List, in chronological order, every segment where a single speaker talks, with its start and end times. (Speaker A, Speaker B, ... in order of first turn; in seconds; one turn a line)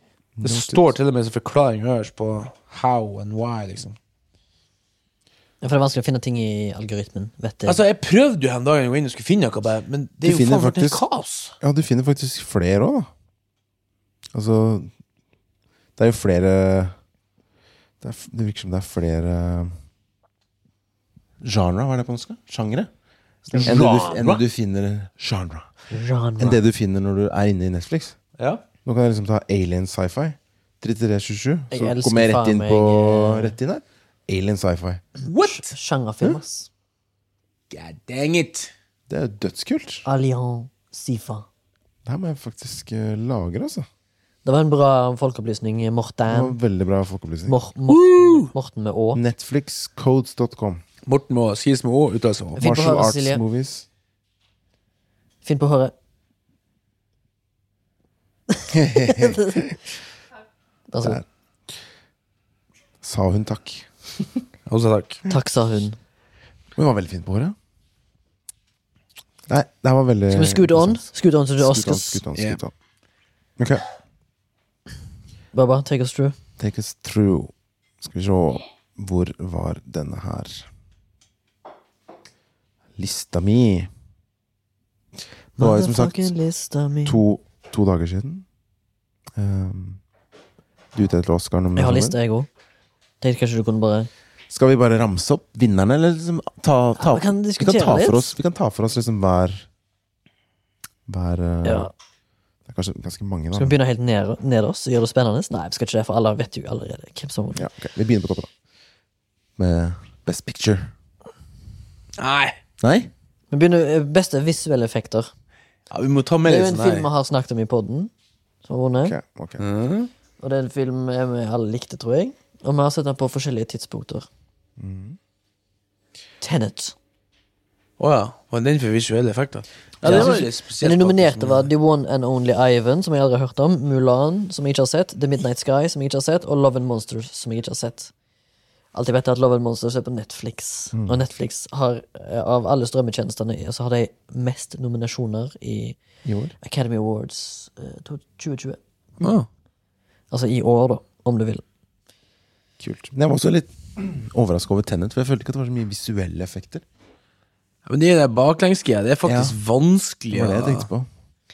Speaker A: 0.4-0.9
Speaker B: 0.4-4.0
Speaker C: 5.6-7.8
Speaker B: 7.7-11.5
Speaker A: 10.2-11.0
Speaker A: 11.6-13.1
Speaker A: 14.3-14.9
Speaker A: 16.0-16.9
Speaker A: 18.0-19.8
Speaker A: 21.4-22.9
Speaker A: 23.5-25.7
Speaker B: 23.5-24.4
Speaker C: 25.9-26.6
Speaker A: 26.4-28.2
Speaker B: 28.4-28.6
Speaker A: 28.8-35.0
Speaker C: 31.7-33.6
Speaker B: 35.2-35.7
Speaker C: 35.4-36.7
Speaker B: 37.7-38.7
Speaker A: 39.1-40.0
Speaker C: 40.0-41.5
Speaker A: 42.0-43.9
Speaker C: 44.4-46.6
Speaker A: 46.3-47.6
Speaker C: 47.5-49.2
Speaker B: 47.9-48.5
Speaker A: 49.1-50.8
Speaker B: 51.0-52.6
Speaker C: 52.6-53.4
Speaker A: 52.6-53.9
Speaker C: 55.4-55.9
Speaker A: 58.7-59.7
Speaker C: 59.0-59.6
Speaker C: 60.9-61.2
Speaker A: 63.0-64.4
Speaker B: 64.7-65.2
Speaker C: 65.3-66.0
Speaker A: 66.8-67.5
Speaker A: 69.5-71.1
Speaker C: 70.3-72.2
Speaker A: 71.6-72.7
Speaker B: 72.3-72.6
Speaker A: 73.6-73.8
Speaker C: 75.5-76.4
Speaker A: 76.6-80.7
Speaker A: 83.0-83.9
Speaker A: 85.5-86.3
Speaker C: 85.6-87.2
Speaker A: 87.0-88.4
Speaker A: 89.3-90.0
Speaker A: 90.9-92.2
Speaker C: 91.8-92.5
Speaker C: 93.2-94.1
Speaker A: 94.5-99.7
Speaker C: 97.0-98.3
Speaker A: 101.1-101.9
Speaker C: 101.6-101.9
Speaker A: 102.7-103.7
Speaker C: 103.5-107.6
Speaker A: 107.5-108.5
Speaker A: 109.6-110.9
Speaker B: 112.2-112.6
Speaker A: 112.8-113.1
Speaker C: 113.5-115.3
Speaker B: 115.9-117.1
Speaker C: 116.4-118.1
Speaker C: 118.6-119.2
Speaker A: 119.0-119.6
Speaker B: 119.6-120.1
Speaker C: 120.4-124.3
Speaker A: 124.8-125.2
Speaker C: 126.4-126.9
Speaker B: 128.0-131.7
Speaker A: 130.0-130.4
Speaker C: 130.0-138.1
Speaker C: 138.9-146.0
Speaker A: 140.9-141.2
Speaker A: 146.2-146.5
Speaker C: 146.6-148.8
Speaker B: 149.2-149.5
Speaker C: 150.3-151.6
Speaker A: 152.8-156.8
Speaker B: 157.8-160.9
Speaker A: 159.2-159.5
Speaker A: 160.3-161.1